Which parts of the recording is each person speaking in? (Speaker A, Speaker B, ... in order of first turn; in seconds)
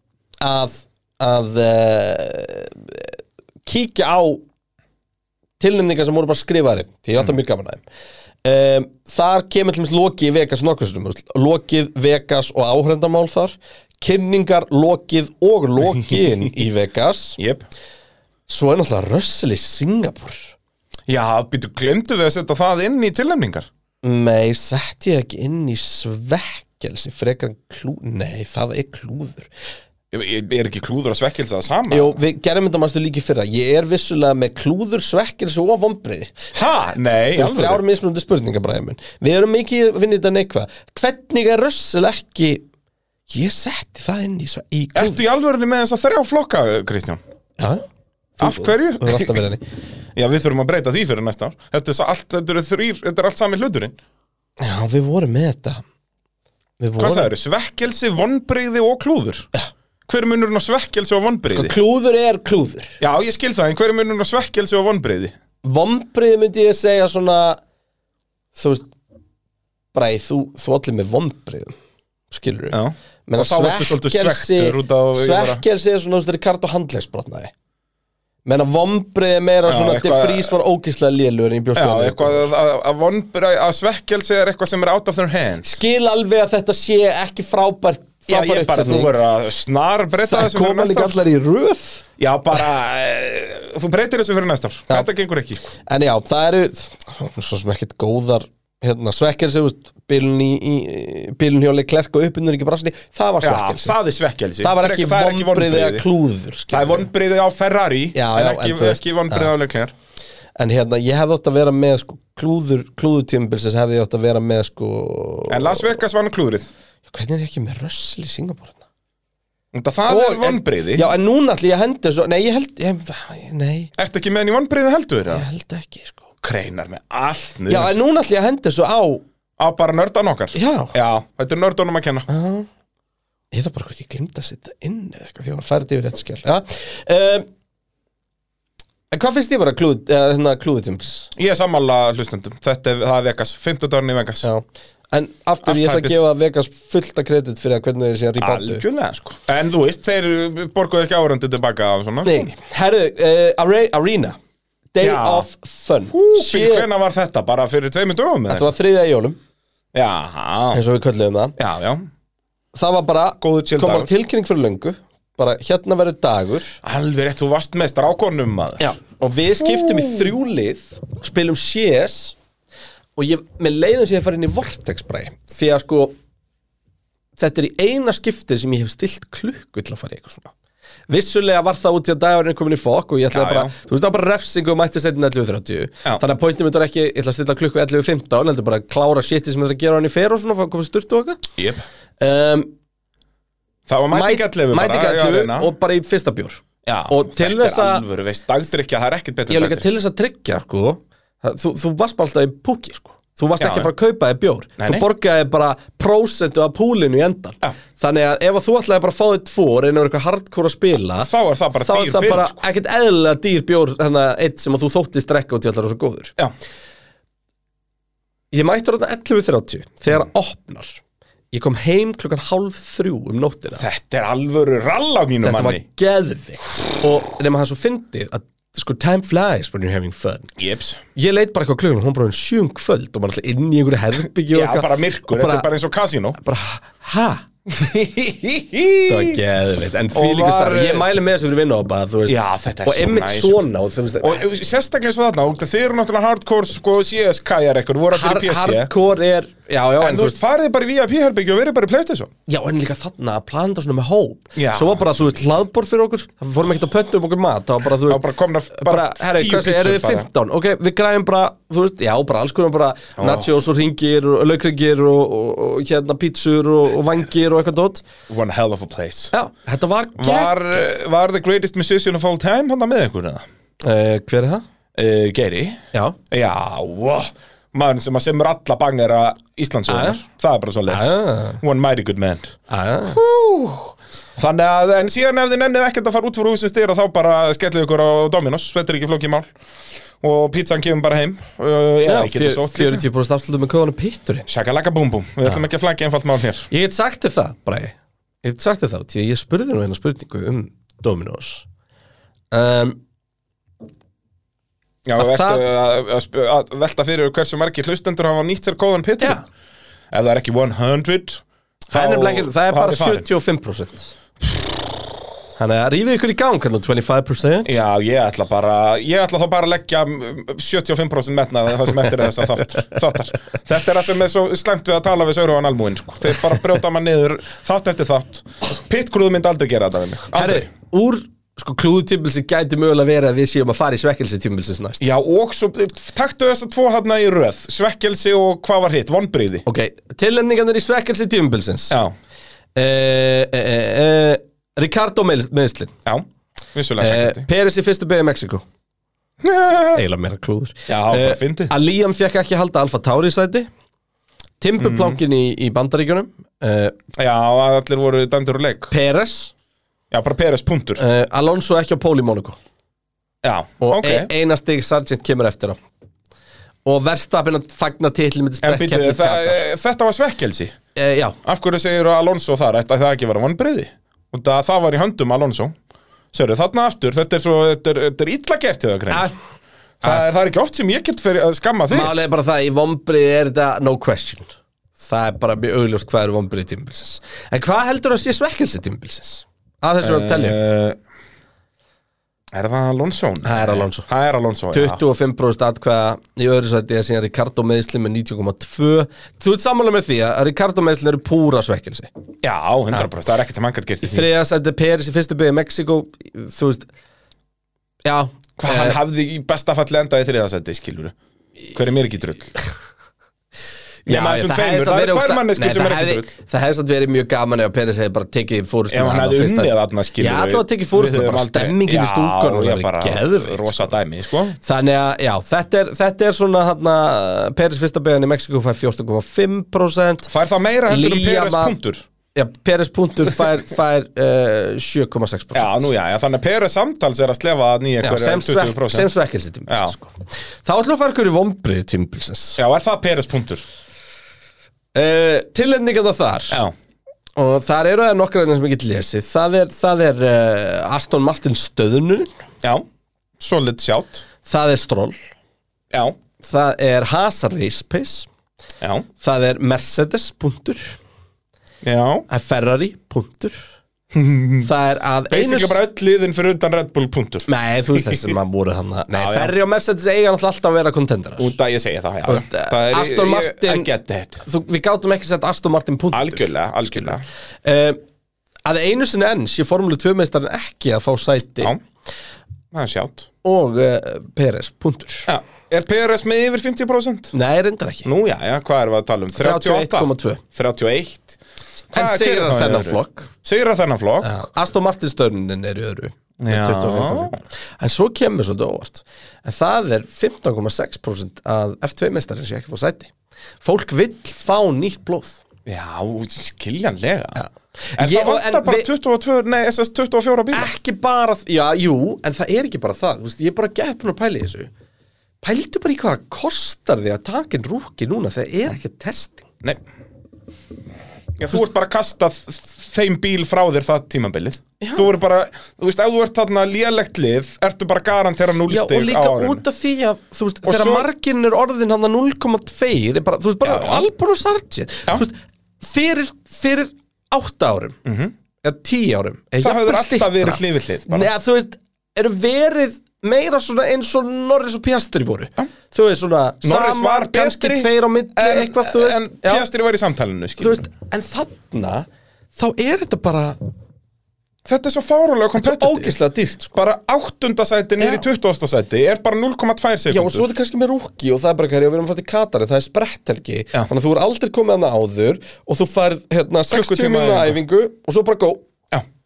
Speaker A: 0.4-4.4, 5.6-7.8, 8.4-17.4, 18.5-20.5, 24.0-29.5, 31.9-36.5, 37.3-42.6, 43.3-45.2, 47.6-47.8, 48.4-49.6, 54.6-55.8, 56.8-57.3, 61.5-63.0, 65.6-67.6, 68.5-68.9, 69.9-71.7, 72.3-77.5, 78.4-82.5, 85.6-89.1, 90.2-92.0, 95.8-104.0, 104.6-107.1, 108.1-109.5, 110.6-116.0, 117.1-118.8, 120.1-123.9, 125.3-126.3, 127.7-129.2, 130.5-130.9, 132.3-132.7, 133.5-137.4, 139.1-141.3, 144.4-148.8, 152.2-154.4, 154.9-156.9, 158.5-159.4, 160.7-161.6, 162.7-166.8, 168.8-172.3, 173.2-176.1, 177.4-180.5, 181.1-191.4, 192.2-192.7, 194.1-198.1, 199.5-216.3, 218.5-221.0, 221.5-223.8, 225.4-230.5, 231.1-235.7, 236.4-237.4, 239.1-244.5, 248.1-250.4, 252.5-268.0, 269.3-270.9, 273.8-274.6, 279.9-280.2, 280.9-281.6, 282.7-283.2, 292.0-294.5, 296.7-301.6, 302.5-303.0, 305.2-305.6, 311.9-314.1, 315.6-317.8, 330.3-335.0, 339.6-342.0, 342.7-345.9, 347.0-348.6, 349.9-353.7, 354.6-357.0, 358.9-359.5, 361.0-362.6, 363.8-365.8, 366.8-369.6, 370.9-371.4, 379.1-379.3, 381.9-390.6, 393.4-394.1, 394.7-402.1, 404.0-406.9, 408.0-409.0, 414.1-423.9, 424.6-430.3, 430.9-431.8, 432.3-435.9, 438.0-442.6, 444.9-446.6, 447.4-452.3, 454.4-455.1, 456.4-458.3, 459.2-460.9, 462.3-463.6, 464.6-465.8, 467.5-471.5, 472.2-473.9, 474.4-477.1, 477.6-478.0, 478.6-481.7, 483.4-485.3, 487.3-488.1, 489.4-490.4, 491.9-493.3, 494.2-505.4, 507.3-508.9, 510.5-514.7, 515.4-519.5, 524.8-525.1, 528.7-538.0, 538.6-549.6, 550.6-553.6, 555.5-556.8, 558.0-558.2, 560.1-568.6
Speaker B: 15.9-16.5, 17.4-17.7, 21.1-23.7, 30.1-32.2, 36.5-37.8, 44.9-47.2, 48.4-49.4, 50.1-54.0, 57.0-59.5, 60.1-61.7, 63.0-65.3, 72.7-75.6, 79.7-80.5, 81.8-85.8, 88.3-91.2, 92.2-95.7, 103.4-106.0, 106.7-109.9, 115.5-116.7, 119.7-121.1, 124.0-125.5, 126.4-128.0, 129.6-132.3, 141.3-144.5, 145.6-146.2, 148.4-152.5, 155.0-155.5, 156.1-158.7, 159.9-160.8, 161.6-162.1, 163.4-164.1, 166.8-168.9, 169.6-170.3, 183.3-183.7, 191.6-191.8, 193.9-195.7, 196.8-199.8, 203.6-203.9, 204.8-205.1, 211.2-212.6, 223.8-225.8, 230.6-231.0, 234.5-236.4, 237.7-239.4, 240.1-241.1, 242.3-243.6, 244.2-248.9, 250.0-252.3, 254.6-255.4, 258.1-260.3, 263.2-263.5, 268.3-269.3, 270.1-273.4, 274.9-289.5, 290.2-293.0, 294.5-296.7, 305.1-309.4, 310.1-313.2, 317.6-330.6, 335.0-339.6, 346.0-347.4, 349.4-350.0, 350.9-351.7, 354.8-355.2, 357.1-358.9, 360.1-361.0, 363.4-364.3, 368.6-370.8, 371.4-375.7, 376.3-379.3, 380.0-382.1, 390.0-391.0, 392.5-395.0, 402.4-404.3, 408.6-411.1, 411.7-412.6, 414.1-416.3, 418.9-424.6, 430.3-432.1, 435.5-439.1, 439.7-439.9, 442.6-443.6, 453.4-454.2, 455.9-456.2, 458.8-459.1, 461.8-462.2, 464.1-464.7, 465.3-468.3, 469.1-469.5, 471.4-474.4, 476.1-477.2, 482.7-483.3, 485.3-487.3, 488.0-491.4, 491.9-494.3, 496.4-497.4, 505.6-507.4, 508.0-510.7, 521.4-529.6, 530.6-531.0, 533.6-534.0, 538.0-538.3, 539.6-541.3, 546.6-550.9, 554.6-556.1, 556.7-560.5, 566.7-567.6